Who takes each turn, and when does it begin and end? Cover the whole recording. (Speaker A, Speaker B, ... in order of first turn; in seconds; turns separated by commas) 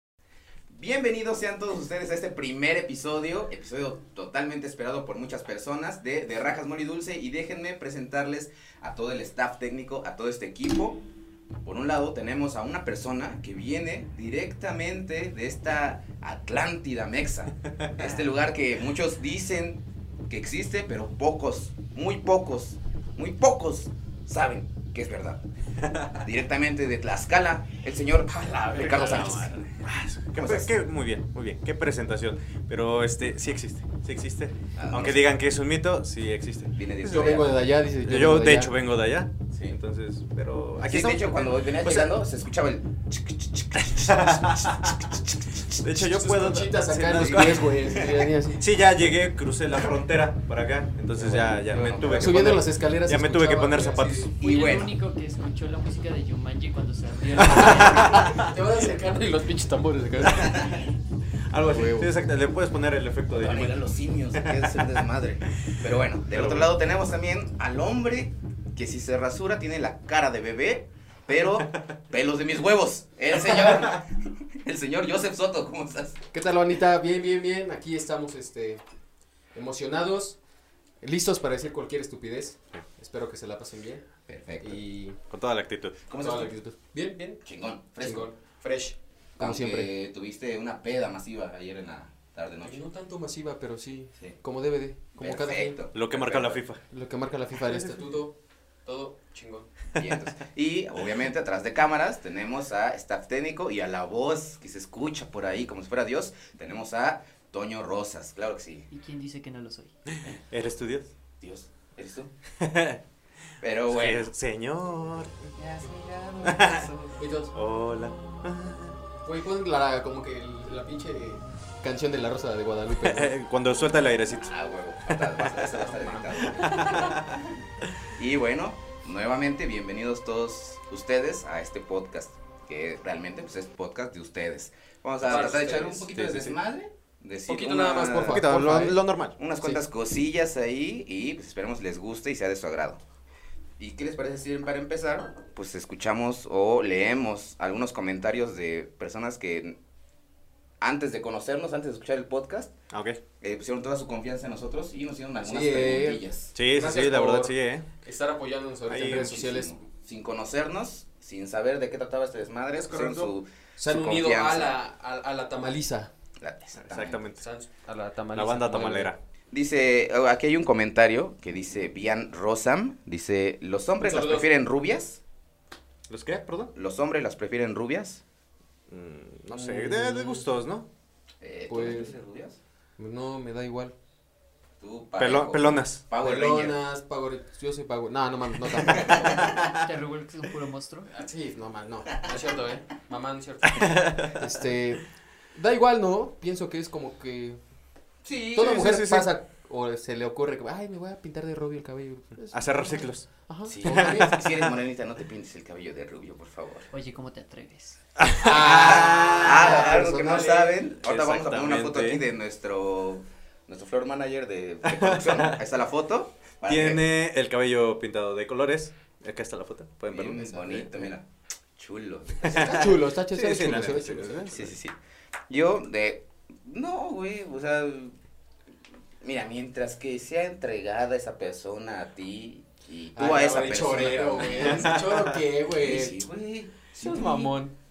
Speaker A: 0.7-11.0, Speaker A: 11.6-25.4, Speaker B: 17.8-18.1, Speaker B: 25.8-26.2, Speaker A: 26.2-29.8, Speaker C: 28.4-29.5, Speaker B: 28.9-37.4, Speaker A: 30.4-30.7, Speaker A: 34.8-35.3, Speaker A: 36.8-37.5, Speaker C: 37.1-38.7, Speaker B: 38.0-42.2, Speaker A: 39.5-39.8, Speaker A: 40.8-45.7, Speaker B: 43.8-45.1, Speaker B: 45.8-54.3, Speaker C: 45.9-48.7, Speaker C: 51.2-54.3, Speaker A: 51.5-52.6, Speaker A: 54.4-54.9, Speaker D: 54.4-58.5, Speaker C: 57.4-60.9, Speaker B: 57.5-58.4, Speaker B: 61.5-63.8, Speaker C: 61.6-62.1, Speaker A: 63.3-76.2, Speaker B: 64.3-65.0, Speaker B: 66.3-66.7, Speaker C: 76.3-78.8, Speaker C: 79.5-80.4, Speaker C: 81.0-84.0, Speaker A: 84.3-84.8, Speaker C: 84.6-85.2, Speaker B: 85.3-86.0, Speaker A: 86.1-86.5, Speaker C: 86.2-87.4, Speaker A: 87.4-88.3, Speaker C: 88.0-89.9, Speaker A: 89.4-92.8, Speaker C: 92.6-95.8, Speaker A: 95.2-96.6, Speaker B: 95.9-96.8, Speaker C: 96.9-99.7, Speaker A: 100.0-108.9, Speaker D: 108.9-110.0, Speaker B: 110.2-111.1, Speaker A: 111.4-112.3, Speaker B: 112.6-113.0, Speaker A: 113.6-114.3, Speaker B: 113.9-115.3, Speaker A: 115.5-117.2, Speaker B: 116.4-116.9, Speaker C: 117.2-117.5, Speaker B: 117.5-119.0, Speaker C: 119.2-123.3, Speaker B: 122.9-124.5, Speaker A: 124.3-127.5, Speaker B: 125.1-125.7, Speaker C: 125.9-127.0, Speaker B: 126.4-127.2, Speaker A: 128.2-138.5, Speaker B: 135.2-136.6, Speaker C: 135.2-136.1, Speaker C: 137.4-139.0, Speaker B: 138.3-139.4, Speaker A: 139.4-143.0, Speaker A: 143.8-149.8, Speaker A: 150.8-152.7, Speaker B: 152.9-153.2, Speaker A: 153.4-156.5, Speaker C: 155.4-156.2, Speaker B: 156.6-157.9, Speaker C: 156.7-159.8, Speaker B: 158.9-159.3, Speaker A: 159.0-164.8, Speaker B: 162.9-163.3, Speaker C: 163.8-166.1, Speaker A: 166.4-167.2, Speaker B: 166.8-167.4, Speaker C: 167.3-169.1, Speaker B: 168.3-169.2, Speaker A: 169.5-175.2, Speaker C: 174.0-174.5, Speaker B: 176.1-176.7, Speaker A: 176.8-178.2, Speaker B: 178.9-180.9, Speaker C: 179.5-180.5, Speaker A: 181.4-182.6, Speaker C: 181.7-182.1, Speaker C: 183.0-183.9, Speaker A: 184.8-186.8, Speaker B: 185.2-186.0, Speaker C: 186.2-189.5, Speaker A: 188.8-189.5, Speaker D: 189.6-191.1, Speaker C: 191.1-197.6, Speaker A: 192.1-192.4, Speaker B: 193.7-194.4, Speaker A: 198.2-198.8, Speaker C: 198.5-204.4, Speaker B: 198.6-199.3, Speaker B: 202.5-203.3, Speaker A: 203.7-206.9, Speaker B: 203.8-204.7, Speaker D: 206.9-208.0, Speaker B: 208.2-210.1, Speaker C: 208.4-210.8, Speaker A: 208.5-217.1, Speaker B: 211.0-212.2, Speaker B: 214.8-215.6, Speaker B: 216.7-220.5, Speaker A: 220.1-221.2, Speaker C: 220.3-221.1, Speaker A: 221.8-222.9, Speaker B: 222.4-224.7, Speaker C: 222.5-224.7, Speaker A: 224.5-224.9, Speaker A: 225.5-228.2, Speaker A: 229.2-235.0, Speaker C: 233.2-236.2, Speaker B: 234.6-235.4, Speaker A: 235.7-237.6, Speaker C: 236.9-237.8